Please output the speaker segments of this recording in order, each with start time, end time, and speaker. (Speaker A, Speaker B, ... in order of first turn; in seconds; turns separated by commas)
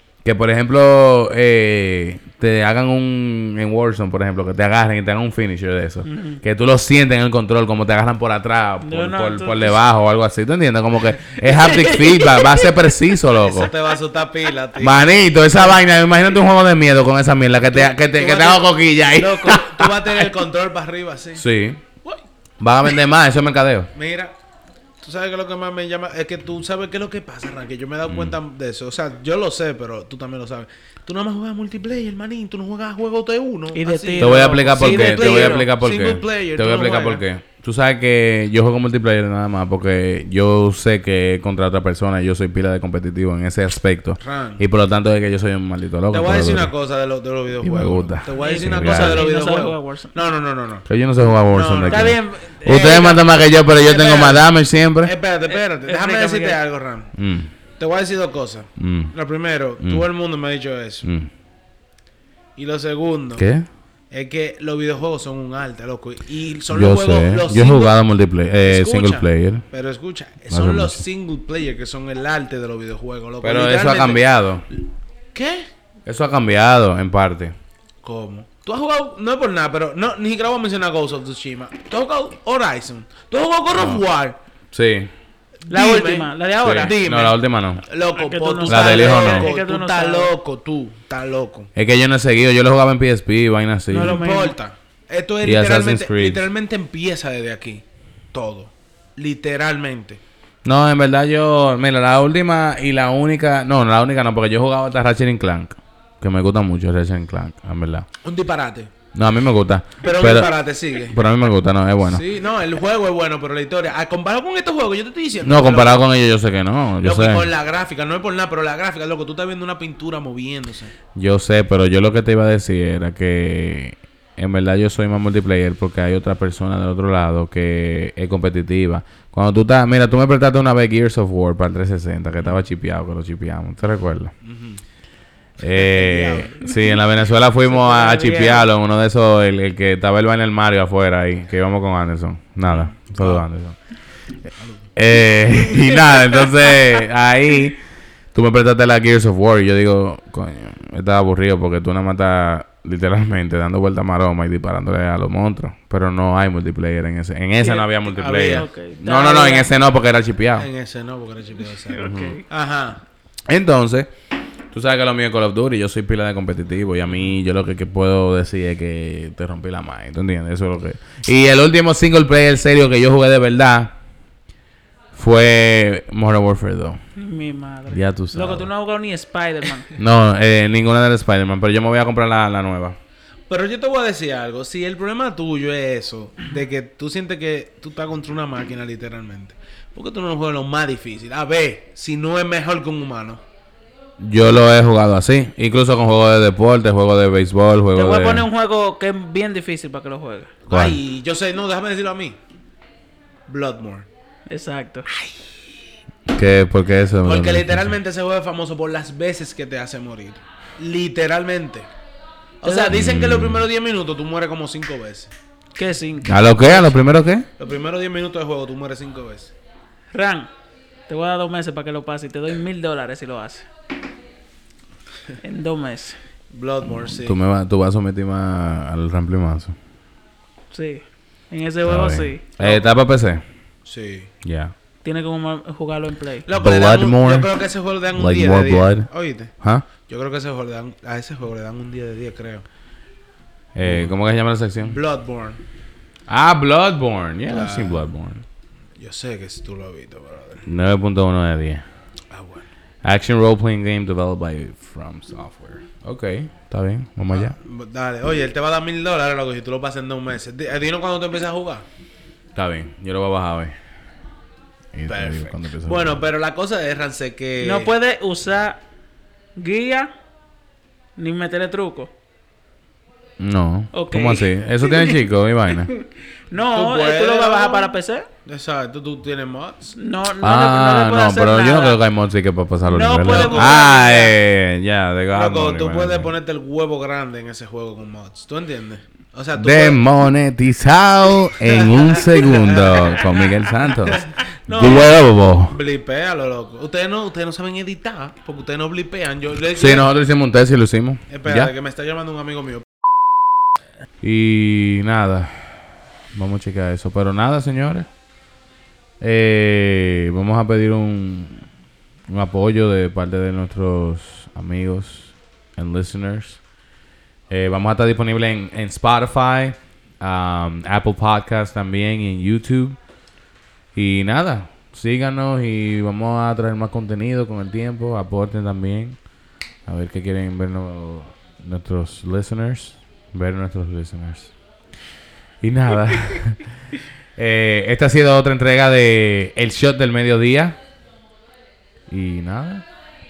Speaker A: 0.2-13.7, Speaker B: 6.0-6.4, Speaker B: 8.8-9.8, Speaker B: 11.5-12.7, Speaker B: 13.4-13.8, Speaker C: 13.4-15.7, Speaker A: 14.8-19.9, Speaker C: 17.7-21.4, Speaker B: 19.2-19.6, Speaker A: 21.4-21.8, Speaker A: 22.6-23.9, Speaker C: 23.9-24.3, Speaker C: 25.0-37.2, Speaker A: 28.1-28.4, Speaker B: 33.7-35.7, Speaker A: 34.2-46.7, Speaker C: 44.2-44.6, Speaker C: 46.1-50.9, Speaker A: 47.6-49.3, Speaker B: 48.4-50.1, Speaker A: 50.9-55.1, Speaker C: 51.5-57.1, Speaker B: 51.9-53.2, Speaker B: 55.5-56.6, Speaker A: 57.1-57.5, Speaker C: 57.8-61.1, Speaker A: 58.8-59.1, Speaker A: 59.8-60.0, Speaker A: 61.0-61.3, Speaker C: 62.5-63.5, Speaker A: 63.4-63.6, Speaker C: 64.1-68.0, Speaker A: 66.7-69.6, Speaker C: 68.6-74.2, Speaker A: 70.5-71.0, Speaker A: 73.4-74.7, Speaker C: 75.3-75.7, Speaker A: 76.0-77.5, Speaker C: 78.0-84.4, Speaker A: 83.7-84.0, Speaker A: 84.7-85.1, Speaker C: 85.6-91.7, Speaker B: 85.7-87.0, Speaker A: 86.6-87.8, Speaker B: 88.1-90.3, Speaker A: 88.7-89.5, Speaker A: 91.7-94.2, Speaker B: 93.9-94.6, Speaker C: 93.9-100.2, Speaker A: 95.4-96.4, Speaker A: 100.6-108.1, Speaker C: 108.2-108.9, Speaker A: 109.1-112.2, Speaker C: 110.0-111.2, Speaker C: 112.0-116.0, Speaker A: 115.4-117.5, Speaker C: 117.0-120.9, Speaker A: 121.1-134.3, Speaker C: 134.4-134.8, Speaker A: 135.6-143.8, Speaker C: 135.6-136.7, Speaker B: 137.7-138.7, Speaker C: 142.7-143.4, Speaker C: 144.6-144.9, Speaker A: 144.9-147.8, Speaker B: 145.8-146.4, Speaker A: 148.3-160.7, Speaker B: 157.6-159.7, Speaker C: 158.1-159.1, Speaker C: 160.6-163.0, Speaker B: 161.8-162.4, Speaker A: 162.0-162.4, Speaker A: 163.5-164.1, Speaker A: 164.7-173.9, Speaker A: 175.1-177.0, Speaker B: 177.2-179.9, Speaker A: 177.9-178.7, Speaker A: 180.0-183.0, Speaker C: 183.5-193.4, Speaker A: 194.2-198.5, Speaker B: 197.9-200.5, Speaker C: 200.7-202.4, Speaker A: 200.7-201.0, Speaker C: 203.5-204.1, Speaker B: 204.5-205.2, Speaker A: 206.3-207.9, Speaker C: 207.2-211.9, Speaker B: 212.6-212.9, Speaker C: 212.6-215.3, Speaker A: 212.9-213.6, Speaker B: 215.7-216.9, Speaker A: 216.2-217.5, Speaker C: 217.6-219.5, Speaker B: 220.1-220.5, Speaker B: 221.1-223.7, Speaker B: 225.4-226.2, Speaker C: 226.5-227.4, Speaker A: 227.2-229.7, Speaker B: 230.7-232.4, Speaker A: 231.8-233.4, Speaker C: 232.6-232.8, Speaker C: 233.8-234.3, Speaker A: 234.4-234.7, Speaker B: 235.0-236.5, Speaker C: 236.4-242.7, Speaker A: 236.5-237.5, Speaker A: 238.1-239.1, Speaker A: 239.6-239.9, Speaker A: 243.7-245.0, Speaker C: 243.8-244.1, Speaker C: 244.8-245.6, Speaker A: 246.3-248.4, Speaker C: 247.5-248.1, Speaker C: 249.0-250.7, Speaker A: 250.7-251.8, Speaker C: 252.3-252.6, Speaker A: 253.0-257.5, Speaker C: 257.3-261.9, Speaker A: 262.5-263.7, Speaker A: 264.9-266.2, Speaker C: 265.1-267.9, Speaker B: 267.6-268.8, Speaker B: 269.6-270.1, Speaker B: 271.2-272.1, Speaker A: 273.4-275.9, Speaker B: 273.9-275.2, Speaker B: 275.9-278.3, Speaker C: 276.6-277.9, Speaker C: 278.4-279.9, Speaker B: 280.0-282.0, Speaker A: 280.4-286.3, Speaker B: 282.8-284.3, Speaker C: 283.2-284.1, Speaker C: 285.3-290.0, Speaker A: 289.5-295.8, Speaker C: 291.6-300.1, Speaker A: 299.7-301.7, Speaker C: 301.3-303.1, Speaker A: 304.2-308.1, Speaker A: 309.2-311.6, Speaker A: 312.3-316.6, Speaker A: 317.5-323.0, Speaker A: 323.9-329.2, Speaker A: 329.9-334.5, Speaker A: 335.6-336.6, Speaker A: 337.4-340.8, Speaker A: 342.1-342.8